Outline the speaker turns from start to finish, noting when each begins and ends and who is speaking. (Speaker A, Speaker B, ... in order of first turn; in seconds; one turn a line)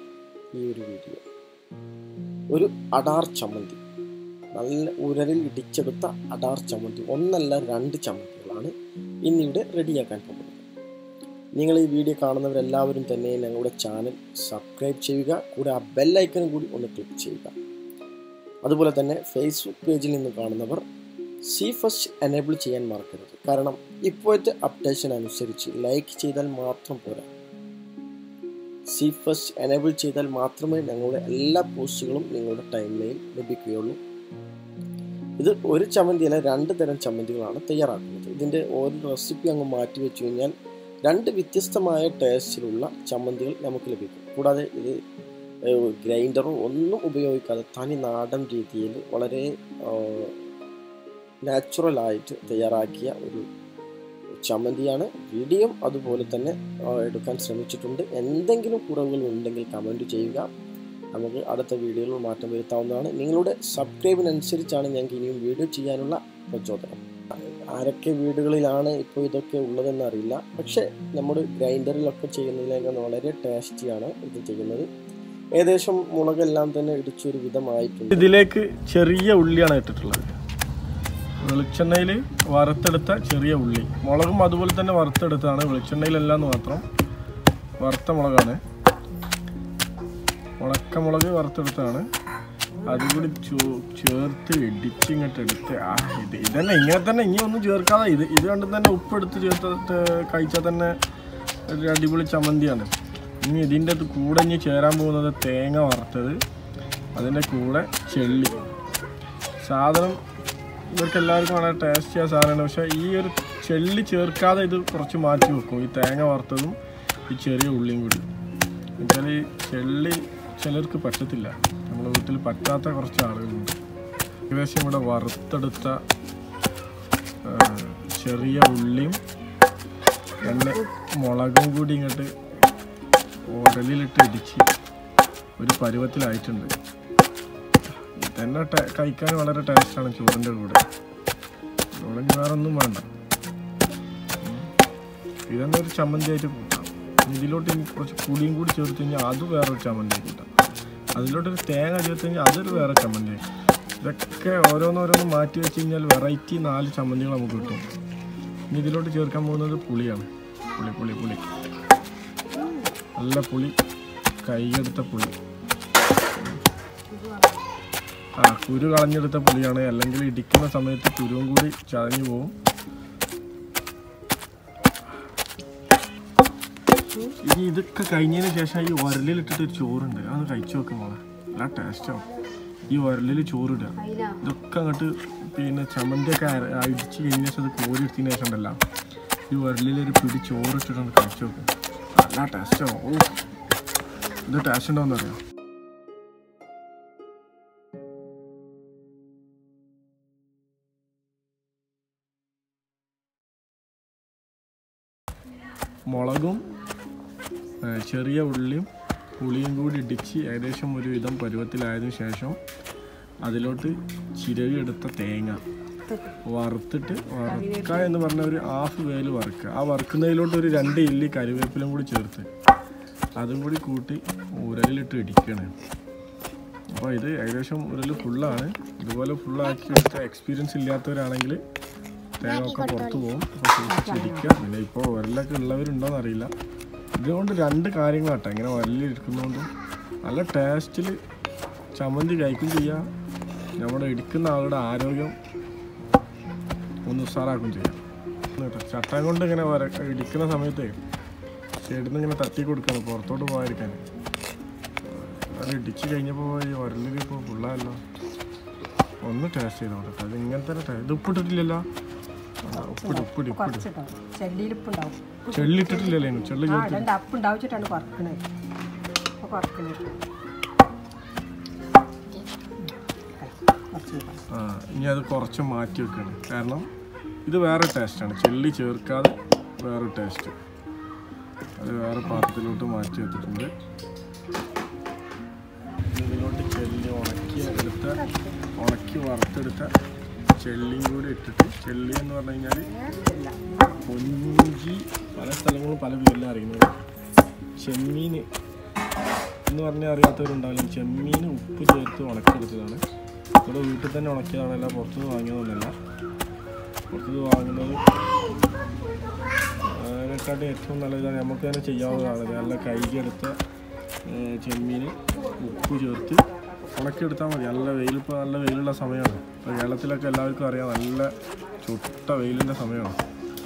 Speaker A: 0.6-1.2
Speaker A: 2.5-3.8
Speaker A: 4.6-8.7
Speaker A: 9.3-10.7
Speaker A: 11.6-17.6
Speaker A: 18.6-20.8
Speaker A: 21.5-27.3
Speaker A: 28.9-34.0
Speaker A: 35.4-40.5
Speaker A: 41.0-45.0
Speaker A: 45.7-50.3
Speaker A: 51.5-53.4
Speaker A: 54.4-60.5
Speaker A: 61.1-74.9
Speaker A: 75.6-78.3
Speaker B: 78.1-80.2
Speaker B: 81.4-86.8
Speaker B: 87.8-88.6
Speaker B: 90.6-92.0
Speaker B: 92.8-101.0
Speaker B: 101.7-106.4
Speaker B: 107.2-108.6
Speaker B: 109.6-110.2
Speaker B: 110.9-116.8
Speaker B: 117.3-118.2
Speaker B: 119.0-123.8
Speaker B: 124.5-126.0
Speaker B: 127.4-129.2
Speaker B: 130.4-132.3
Speaker B: 133.5-134.7
Speaker B: 135.6-136.7
Speaker B: 138.2-140.8
Speaker B: 141.9-143.1
Speaker B: 144.4-144.7
Speaker B: 145.5-153.4
Speaker B: 154.0-157.8
Speaker B: 158.7-161.4
Speaker B: 163.2-163.7
Speaker B: 164.4-165.3
Speaker B: 168.4-172.5
Speaker B: 177.4-182.3
Speaker B: 182.9-188.8
Speaker B: 189.5-193.4
Speaker B: 194.4-195.4
Speaker B: 206.1-206.6
Speaker B: 207.8-208.9
Speaker B: 209.4-212.6
Speaker B: 213.4-215.6
Speaker C: 216.1-216.4
Speaker B: 216.4-222.5
Speaker C: 217.5-218.1
Speaker B: 223.4-225.7
Speaker B: 226.9-231.6
Speaker B: 232.4-236.5
Speaker C: 233.8-234.5
Speaker B: 237.2-239.7
Speaker B: 240.2-241.2
Speaker B: 242.0-243.1
Speaker B: 243.8-245.4
Speaker B: 247.1-248.0
Speaker B: 248.6-250.9
Speaker B: 251.8-254.0
Speaker B: 255.0-258.0
Speaker B: 259.2-261.8
Speaker B: 262.6-263.9
Speaker C: 262.7-268.4
Speaker B: 265.5-267.1
Speaker C: 269.4-270.2
Speaker C: 273.4-274.4
Speaker B: 274.5-276.9
Speaker B: 277.4-280.6
Speaker B: 281.8-283.7
Speaker B: 286.0-288.2
Speaker C: 288.1-288.6
Speaker B: 288.8-289.9
Speaker B: 290.6-292.9
Speaker C: 292.9-294.0
Speaker B: 294.0-296.9
Speaker B: 297.8-298.5
Speaker B: 299.7-303.0
Speaker B: 303.6-305.9
Speaker B: 307.1-308.0
Speaker B: 309.8-313.6
Speaker B: 314.2-323.2